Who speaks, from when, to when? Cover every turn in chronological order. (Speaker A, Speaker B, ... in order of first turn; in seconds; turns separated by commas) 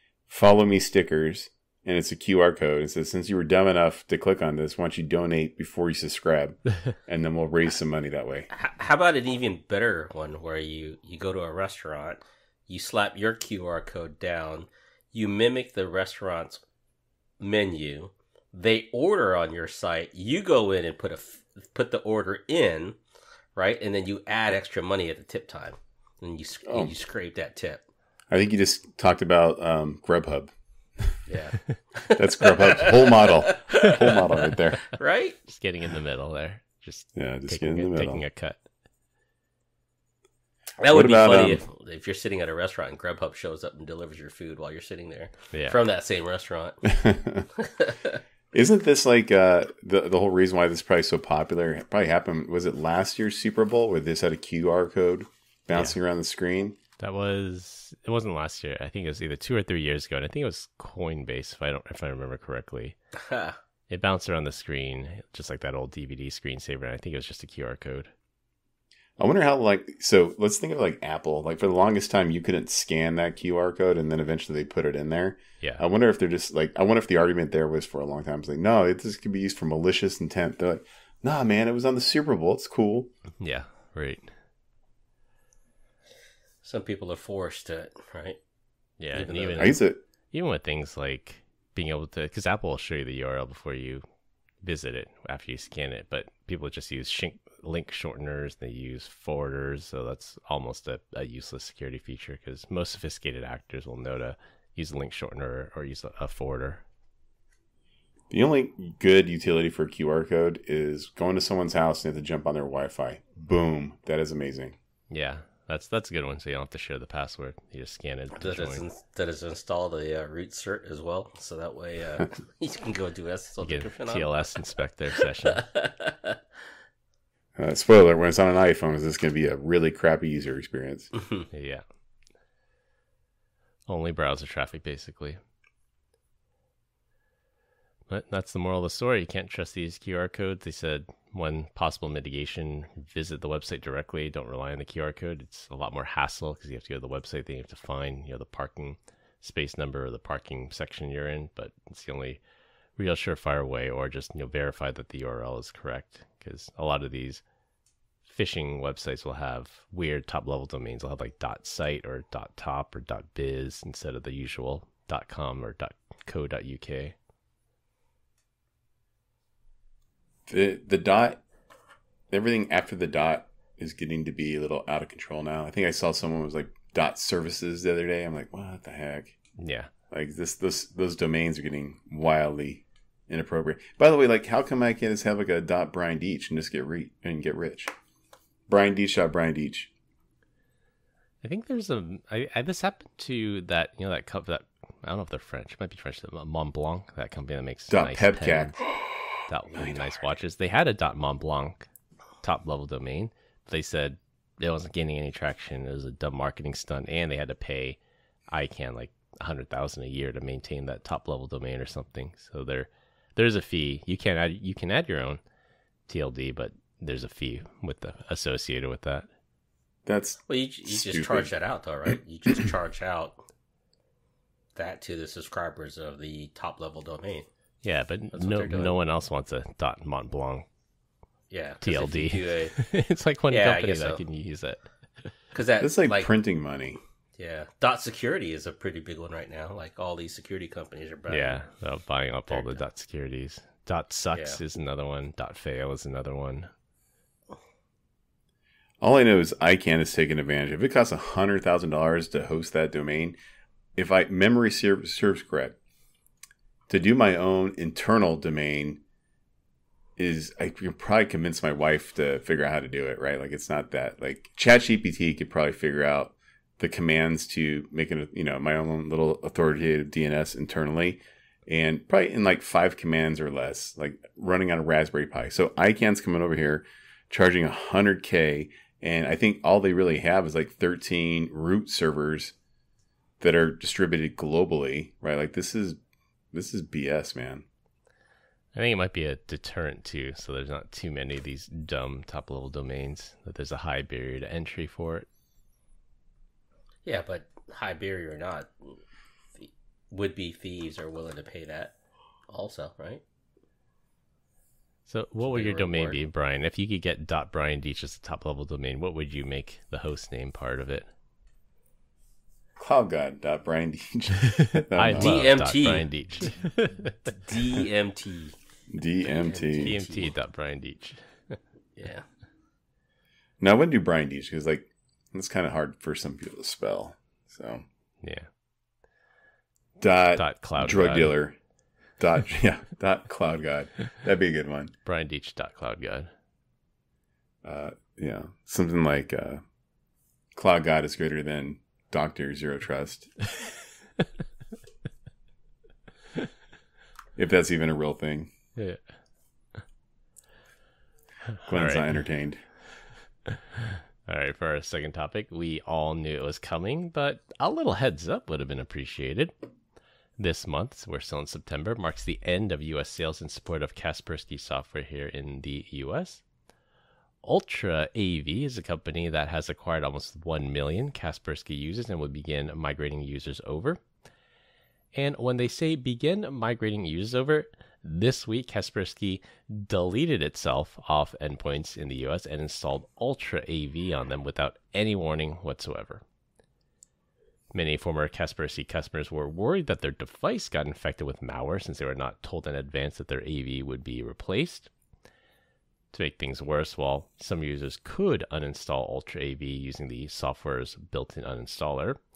Speaker A: 0.3-8.5, Speaker B: 8.5-16.6, Speaker B: 17.4-23.0, Speaker B: 23.6-27.8, Speaker A: 26.6-26.9, Speaker A: 28.3-31.1, Speaker B: 31.3-35.4, Speaker A: 32.1-34.9, Speaker C: 35.5-38.6, Speaker A: 37.1-38.2, Speaker B: 40.8-47.0, Speaker A: 40.9-41.6, Speaker C: 45.5-45.8, Speaker A: 46.9-47.5, Speaker B: 47.6-48.2, Speaker A: 48.5-56.8, Speaker C: 57.0-63.0, Speaker B: 63.2-63.6, Speaker C: 63.9-68.1, Speaker A: 69.2-83.1, Speaker C: 83.4-84.3, Speaker B: 86.6-88.4, Speaker C: 89.0-89.8, Speaker B: 89.1-89.8, Speaker A: 89.6-90.0, Speaker C: 90.3-94.0, Speaker C: 94.6-106.8, Speaker A: 108.3-114.8, Speaker C: 115.1-118.8, Speaker B: 118.3-124.6, Speaker C: 123.6-125.6, Speaker B: 125.2-126.4, Speaker A: 127.5-131.1, Speaker C: 131.5-131.8, Speaker C: 133.9-135.4, Speaker C: 138.1-152.4, Speaker C: 153.0-157.4, Speaker C: 158.2-167.1, Speaker A: 170.5-171.4, Speaker A: 172.3-179.3, Speaker C: 179.6-179.9, Speaker A: 180.1-187.9, Speaker A: 188.7-189.9, Speaker C: 191.4-198.8, Speaker A: 197.9-200.1, Speaker C: 199.5-201.9, Speaker C: 202.4-208.0, Speaker C: 208.5-215.4, Speaker C: 216.1-219.3, Speaker A: 220.1-221.5, Speaker B: 220.5-223.4, Speaker A: 222.1-222.7, Speaker B: 224.7-227.5, Speaker C: 227.8-230.7, Speaker B: 228.3-229.0, Speaker B: 231.5-232.8, Speaker C: 231.8-235.3, Speaker B: 233.5-234.2, Speaker B: 235.5-236.3, Speaker A: 235.8-237.0, Speaker B: 237.4-241.6, Speaker C: 241.3-246.7, Speaker B: 242.5-242.8, Speaker B: 244.3-244.6, Speaker A: 249.0-253.3, Speaker A: 253.9-255.8, Speaker A: 256.9-259.0, Speaker A: 260.2-282.5, Speaker A: 283.4-286.0, Speaker A: 286.5-287.6, Speaker C: 288.7-295.3, Speaker B: 297.0-299.0, Speaker B: 299.6-301.9, Speaker B: 302.5-303.2, Speaker C: 305.1-311.1, Speaker B: 305.4-306.2, Speaker A: 312.8-315.4, Speaker C: 314.7-317.2, Speaker B: 315.1-316.1, Speaker B: 317.2-318.6, Speaker A: 318.9-320.0, Speaker B: 319.2-320.3, Speaker C: 319.8-321.6, Speaker B: 321.9-322.2, Speaker A: 323.6-327.8, Speaker C: 328.2-328.5, Speaker A: 330.0-331.6, Speaker C: 330.4-331.3, Speaker A: 332.2-334.9, Speaker C: 335.0-336.3, Speaker A: 337.6-339.6, Speaker A: 340.5-343.3, Speaker A: 347.4-348.5, Speaker C: 351.5-352.2, Speaker A: 351.6-352.6, Speaker C: 353.5-359.5, Speaker C: 360.4-366.4, Speaker C: 367.4-374.0, Speaker C: 375.1-386.2, Speaker C: 387.7-394.9, Speaker C: 396.1-402.2